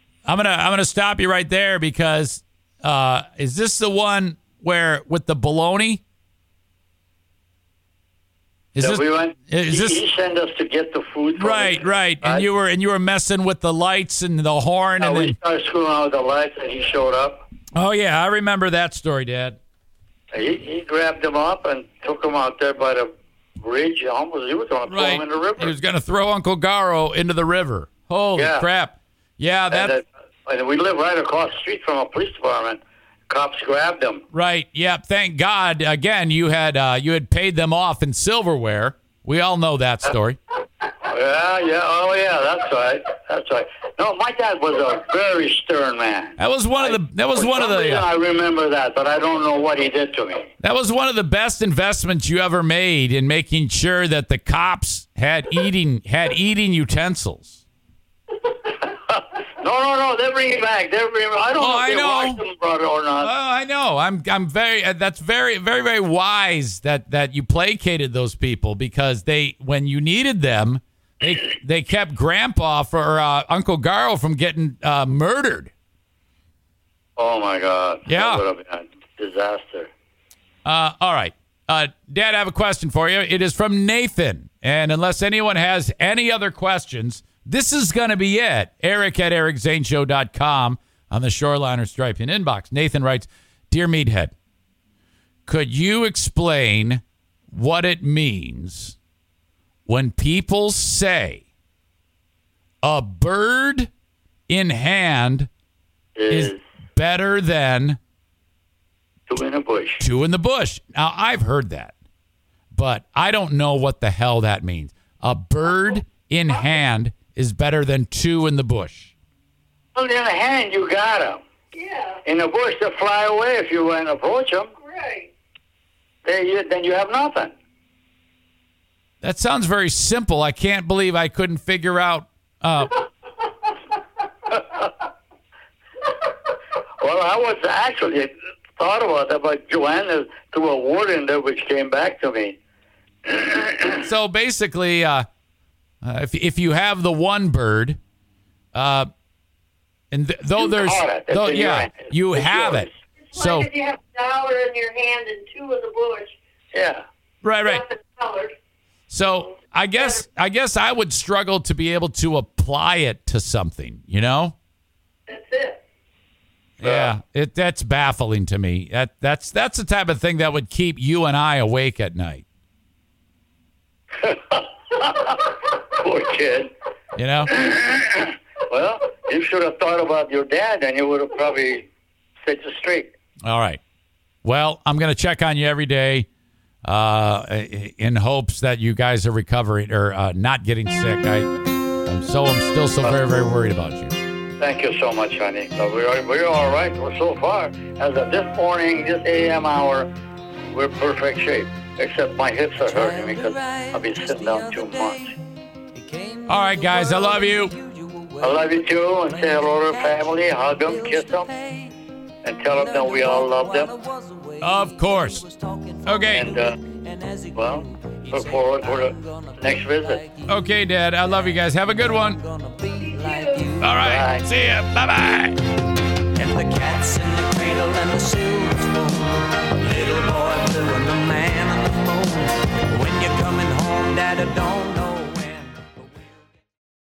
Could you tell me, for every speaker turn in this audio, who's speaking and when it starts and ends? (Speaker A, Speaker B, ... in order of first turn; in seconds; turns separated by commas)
Speaker A: 0.2-6.0, Speaker A: 8.7-10.0, Speaker B: 8.8-12.5, Speaker A: 11.4-15.3, Speaker B: 15.0-17.5, Speaker A: 17.7-19.6, Speaker B: 20.3-25.7, Speaker A: 24.9-30.0, Speaker B: 28.3-28.6, Speaker B: 29.7-34.2, Speaker A: 34.3-40.4, Speaker B: 41.0-50.5, Speaker A: 46.4-48.1, Speaker A: 50.6-57.6, Speaker B: 58.8-63.3, Speaker A: 61.6-62.4, Speaker A: 63.2-75.7, Speaker B: 77.2-79.9, Speaker A: 78.1-78.4, Speaker A: 80.6-94.3, Speaker A: 95.5-99.0, Speaker A: 99.9-101.4, Speaker A: 102.8-103.9, Speaker A: 104.5-105.5, Speaker B: 106.1-106.6, Speaker A: 106.3-108.0, Speaker B: 109.3-110.0, Speaker A: 110.0-111.9, Speaker A: 112.7-119.1, Speaker B: 119.9-121.4, Speaker C: 121.7-122.2, Speaker B: 122.2-124.7, Speaker C: 124.8-125.3, Speaker B: 126.2-127.5, Speaker A: 129.2-133.0, Speaker B: 134.5-134.9, Speaker B: 137.0-142.6, Speaker B: 143.2-144.1, Speaker A: 144.0-145.2, Speaker A: 146.0-148.0, Speaker A: 148.7-149.1, Speaker A: 150.1-153.7, Speaker B: 150.6-152.9, Speaker C: 153.3-156.3, Speaker B: 156.7-157.0, Speaker A: 157.4-157.8, Speaker C: 157.6-158.5, Speaker A: 159.1-164.5, Speaker C: 165.3-165.8, Speaker A: 166.8-172.4, Speaker B: 166.8-167.1, Speaker B: 174.2-176.7, Speaker A: 177.2-177.5, Speaker B: 177.5-181.9, Speaker B: 182.4-183.1, Speaker A: 183.4-183.8, Speaker A: 184.4-186.3, Speaker A: 186.8-191.5, Speaker A: 192.1-194.1, Speaker B: 194.6-200.1, Speaker B: 200.7-205.3, Speaker D: 202.8-205.3, Speaker D: 205.9-212.0, Speaker A: 206.5-207.7, Speaker B: 208.4-211.5, Speaker B: 212.4-213.9, Speaker D: 212.7-220.6, Speaker A: 214.6-215.4, Speaker A: 216.0-216.5, Speaker B: 216.3-216.8, Speaker B: 217.5-220.2, Speaker A: 220.5-222.4, Speaker D: 221.2-223.9, Speaker C: 223.0-223.7, Speaker A: 223.8-225.6, Speaker B: 224.0-224.4, Speaker D: 226.3-236.3